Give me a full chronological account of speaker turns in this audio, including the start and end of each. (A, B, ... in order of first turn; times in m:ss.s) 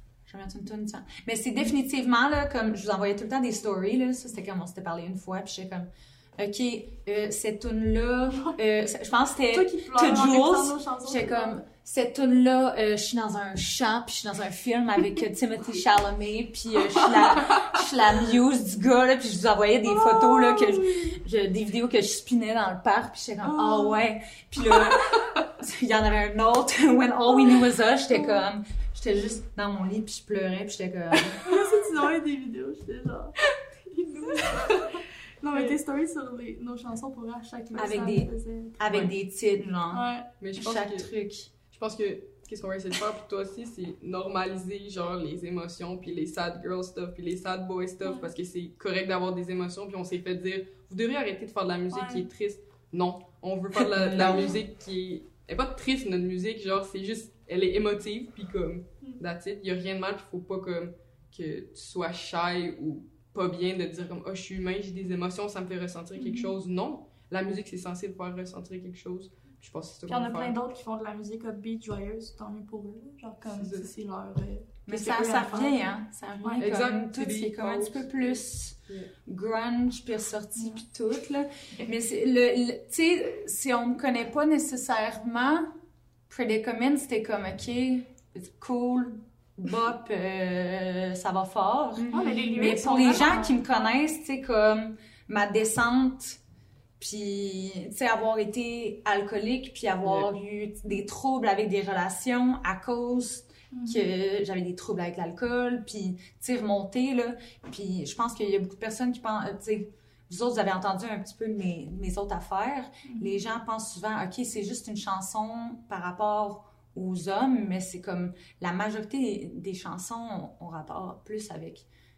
0:00.3-0:31.6 A
0:08.3-0:08.6 B
0:09.5-0:11.6 B
0:17.2-0:17.6 B
0:19.9-0:21.2 B
0:23.4-0:24.0 B
0:28.1-0:28.4 B
0:31.4-0:38.8 B
0:37.8-0:41.5 A
0:39.9-0:40.3 B
0:40.4-0:41.1 C
0:41.7-1:10.6 C
0:48.0-0:48.3 B
0:51.9-0:52.2 B
0:53.8-0:54.6 A
1:06.2-1:06.5 B
1:10.1-1:16.6 B
1:13.6-1:13.9 C
1:14.9-1:25.7 A
1:16.6-1:19.1 C
1:26.3-1:36.4 A
1:32.0-1:32.4 C
1:32.1-1:33.6 B
1:37.0-2:01.9 A
1:43.7-1:44.1 B
1:53.0-1:53.4 B